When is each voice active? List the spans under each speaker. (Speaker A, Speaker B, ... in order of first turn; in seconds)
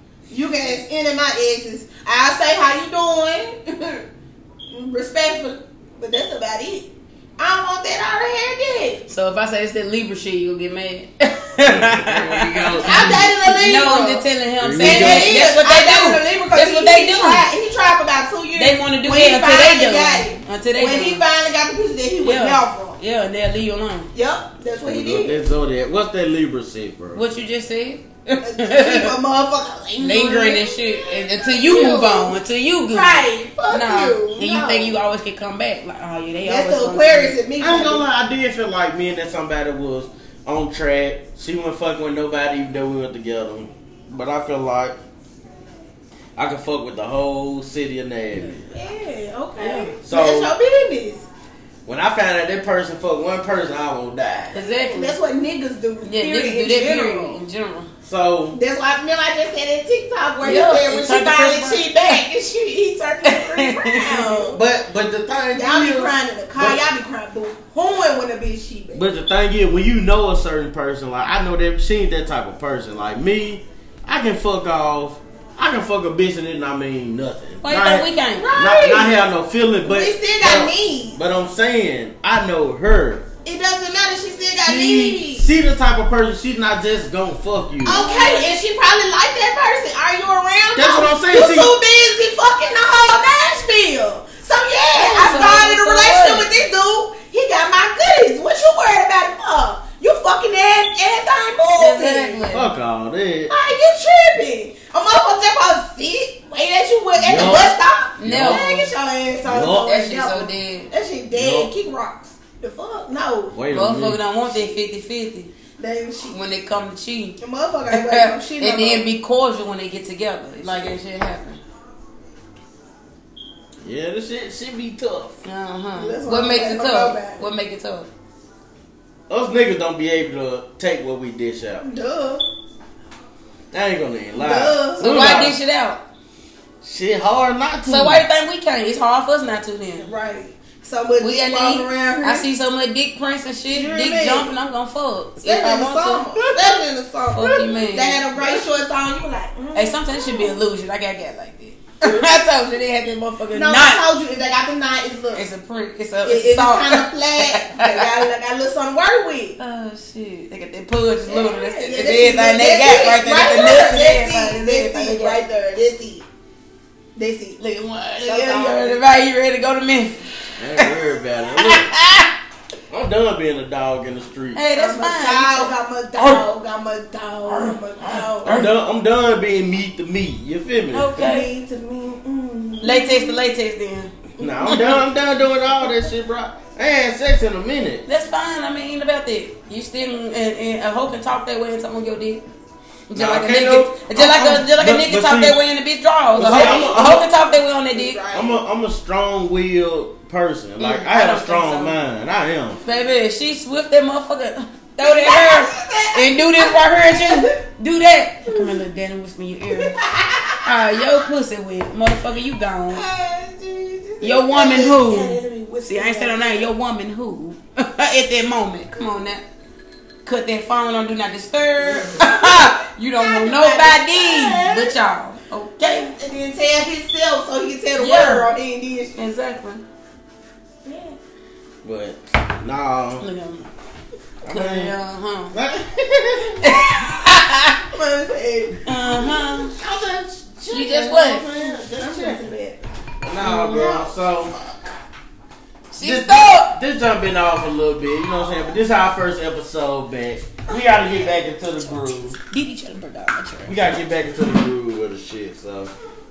Speaker A: 0.3-4.0, 4.7-9.1, 12.8-14.2, 14.8-23.0, 24.1-25.4, 28.4-35.0, 36.4-38.0, 48.7-51.2, 54.6-57.4, 58.5-64.6, 65.5-69.1, 78.3-79.2, 79.8-81.2, 83.4-85.5, 87.8-102.4, 103.5-113.5, 115.8-116.4, 117.4-119.1, 120.6-120.9, 125.9-127.4, 131.8-132.4, 134.3-135.1, 140.0-142.4, 143.7-144.5, 145.4-150.6, 152.0-152.3, 153.5-155.4, 156.2-159.6, 161.3-166.2, 167.2-167.6, 168.2-169.0, 174.7-178.6, 181.1-183.5, 184.4-184.9, 196.4-198.6, 205.0-207.6, 209.7-211.0, 212.9-216.7, 221.8-224.9, 225.8-229.2, 230.8-231.2, 237.8-239.3, 241.5-242.8, 243.4-244.7
Speaker B: 9.1-17.5, 18.6-21.2, 22.2-24.1, 27.1-29.1, 30.0-37.4, 48.3-48.6, 49.6-49.9, 54.5-55.1, 56.0-57.9, 60.4-62.2, 63.2-64.5, 77.6-78.5, 87.8-88.5, 94.9-96.5, 101.8-102.7, 108.2-108.9, 109.7-110.9, 113.7-115.5, 116.3-117.4, 117.9-121.6, 125.4-128.1, 135.0-136.0, 137.8-140.1, 141.2-146.2, 147.3-148.6, 149.7-154.0, 155.3-158.2, 159.6-165.4, 167.6-170.9, 171.5-172.3, 174.5-176.4, 177.5-178.7, 180.9-181.5, 182.8-185.0, 188.1-192.4, 193.1-198.2, 200.8-201.9, 202.8-210.0, 210.6-213.0, 214.2-219.4, 220.2-226.1, 228.0-228.5, 229.1-229.8, 233.2-233.7, 234.5-235.6, 236.6-237.8, 238.8-239.7, 240.7-241.5, 243.4-244.0, 245.9-246.7, 252.3-253.8
Speaker C: 11.6-13.3, 14.6-15.4, 24.8-27.2, 37.6-45.0, 46.4-48.6, 50.0-50.5, 51.9-54.5, 58.0-58.6, 64.5-66.8, 68.9-83.2, 84.6-88.0, 90.7-91.7, 102.5-103.5, 107.2-108.6, 109.4-110.0, 111.3-111.7, 113.5-114.2, 123.8-125.4, 129.3-131.8, 133.7-135.6, 136.8-138.2, 146.3-146.8, 170.6-171.9, 172.9-174.6, 178.4-181.2, 184.4-188.0, 193.1-195.6, 196.4-197.2, 198.3-202.8, 231.8-233.2, 234.4-234.9, 235.5-236.8, 239.7-242.5, 243.2-244.5, 246.0-252.4, 253.7-255.9